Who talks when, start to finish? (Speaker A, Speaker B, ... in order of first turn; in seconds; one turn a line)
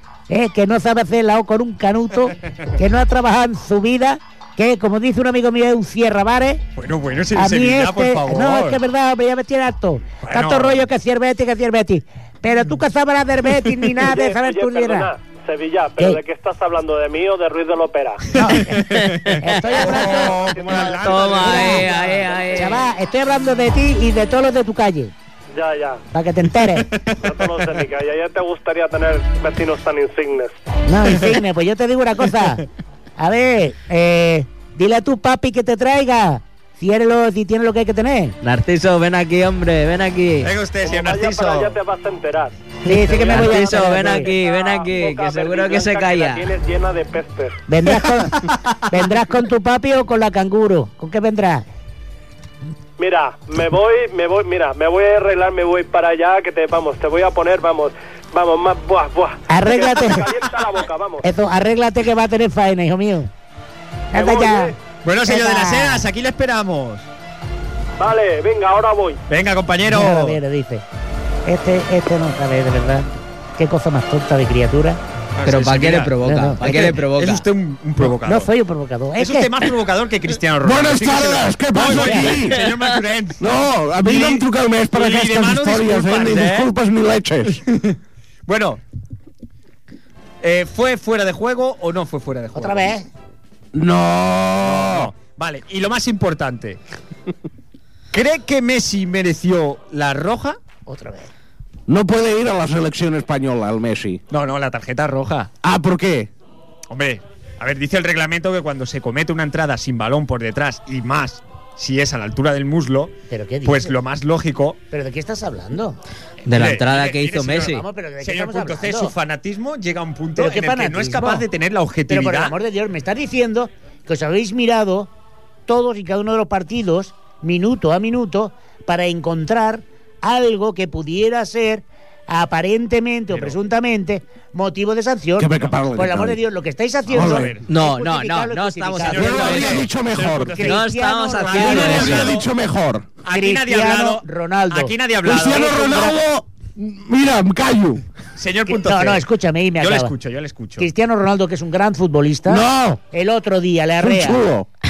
Speaker A: 0.3-6.6
Speaker B: 6.8-8.8
Speaker A: 7.3-15.1
Speaker B: 10.2-10.8
Speaker C: 14.0-18.3
Speaker B: 18.3-22.2
Speaker A: 18.4-21.9
Speaker D: 18.9-19.4
Speaker C: 19.7-22.6
Speaker D: 20.8-22.8
Speaker A: 22.5-25.1
Speaker C: 25.5-26.0
Speaker A: 26.1-26.9
Speaker B: 26.9-27.6
Speaker C: 27.2-30.5
Speaker A: 30.9-32.6
Speaker A: 33.2-38.4
Speaker D: 38.4-40.5
Speaker B: 40.4-41.8
Speaker C: 40.8-47.6
Speaker A: 42.8-44.3
Speaker D: 42.9-46.5
Speaker A: 47.7-51.6
Speaker C: 53.0-61.3
Speaker A: 59.5-60.3
Speaker A: 61.2-63.3
Speaker A: 64.1-64.7
Speaker C: 64.1-64.7
Speaker B: 65.0-67.0
Speaker A: 65.2-66.1
Speaker C: 68.0-69.2
Speaker B: 69.3-70.4
Speaker A: 69.9-70.8
Speaker A: 71.5-73.1
Speaker A: 73.6-75.0
Speaker B: 75.3-78.5
Speaker D: 75.4-77.4
Speaker A: 76.2-76.6
Speaker A: 78.0-79.5
Speaker B: 79.2-86.7
Speaker E: 80.6-82.6
Speaker A: 81.9-82.3
Speaker E: 83.4-87.6
Speaker B: 87.5-88.0
Speaker B: 88.5-88.8
Speaker B: 90.4-92.9
Speaker A: 92.5-93.1
Speaker E: 93.7-95.1
Speaker B: 94.6-96.8
Speaker B: 98.1-100.6
Speaker A: 100.9-101.3
Speaker E: 101.9-104.2
Speaker B: 104.3-105.5
Speaker E: 105.6-106.3
Speaker B: 106.9-114.8
Speaker A: 113.3-113.9
Speaker A: 114.9-116.0
Speaker D: 116.5-117.8
Speaker B: 116.5-122.5
Speaker A: 117.7-119.1
Speaker A: 120.3-121.4
Speaker A: 122.1-125.1
Speaker A: 125.7-139.8
Speaker E: 135.4-136.4
Speaker B: 137.1-137.6
Speaker E: 137.1-137.5
Speaker D: 137.7-139.8
Speaker B: 139.0-140.8
Speaker E: 139.2-140.5
Speaker A: 140.5-142.3
Speaker D: 140.6-142.3
Speaker B: 141.4-142.5
Speaker E: 141.6-143.1
Speaker B: 143.2-145.7
Speaker A: 143.3-146.2
Speaker E: 145.2-148.0
Speaker B: 148.3-149.2
Speaker A: 148.7-150.1
Speaker B: 149.8-150.9
Speaker A: 150.8-154.4
Speaker E: 152.5-153.0
Speaker E: 154.0-154.7